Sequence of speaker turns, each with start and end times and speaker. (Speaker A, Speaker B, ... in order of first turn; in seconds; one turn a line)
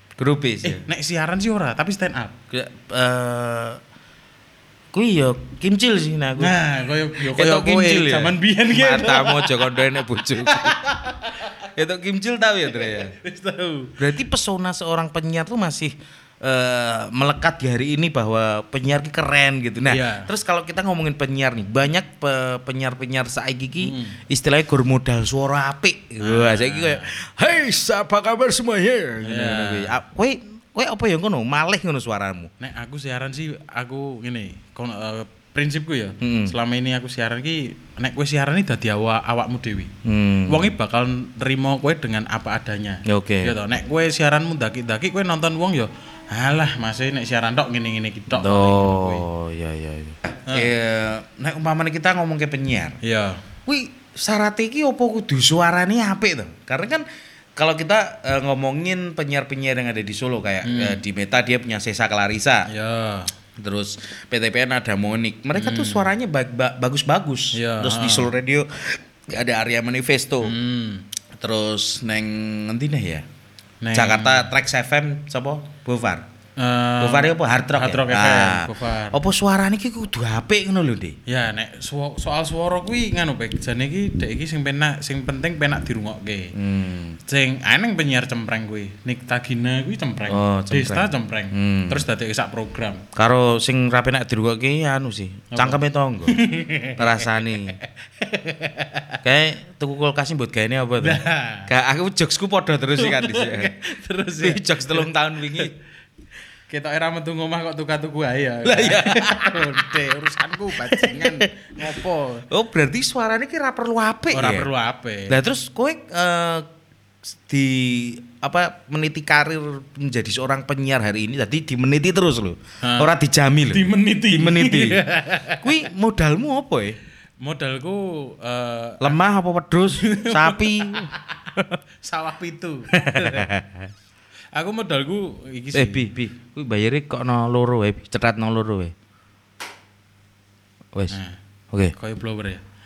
Speaker A: 0.2-0.8
Speaker B: 0.6-2.4
Speaker A: 2.5-3.8
Speaker A: 4.9-6.5
Speaker B: 6.4-11.5
Speaker A: 7.2-10.8
Speaker A: 11.7-13.1
Speaker B: 12.8-14.0
Speaker A: 14.0-32.5
Speaker B: 19.9-20.3
Speaker B: 23.8-24.2
Speaker B: 26.2-27.1
Speaker B: 29.2-30.0
Speaker B: 32.6-39.9
Speaker A: 36.2-36.5
Speaker A: 40.0-40.7
Speaker B: 40.5-49.2
Speaker A: 43.1-43.6
Speaker A: 48.3-53.0
Speaker B: 53.0-53.4
Speaker A: 53.7-57.0
Speaker A: 57.6-62.7
Speaker B: 60.6-61.0
Speaker B: 62.7-63.3
Speaker A: 63.6-70.5
Speaker B: 65.5-66.1
Speaker B: 67.5-68.3
Speaker B: 70.4-71.0
Speaker A: 71.4-73.2
Speaker B: 73.8-74.5
Speaker A: 73.9-76.2
Speaker B: 76.6-79.2
Speaker A: 77.0-81.2
Speaker B: 81.3-86.5
Speaker A: 86.5-87.2
Speaker B: 87.2-93.0
Speaker A: 90.3-92.1
Speaker A: 93.2-96.4
Speaker B: 95.5-99.2
Speaker A: 97.0-97.8
Speaker A: 99.2-103.7
Speaker B: 101.0-101.7
Speaker B: 103.0-105.7
Speaker A: 104.4-105.7
Speaker B: 106.7-112.5
Speaker A: 108.7-109.8
Speaker A: 110.7-111.8
Speaker A: 112.5-114.7
Speaker B: 114.3-115.4
Speaker A: 115.3-116.7
Speaker A: 117.5-125.0
Speaker B: 122.8-123.1
Speaker B: 123.7-125.8
Speaker A: 125.6-127.0
Speaker B: 127.4-129.2
Speaker A: 129.0-131.8
Speaker B: 129.9-131.5
Speaker B: 132.1-133.5
Speaker A: 132.9-133.9
Speaker B: 134.5-136.1
Speaker A: 135.7-138.9
Speaker B: 141.1-141.4
Speaker B: 142.0-142.6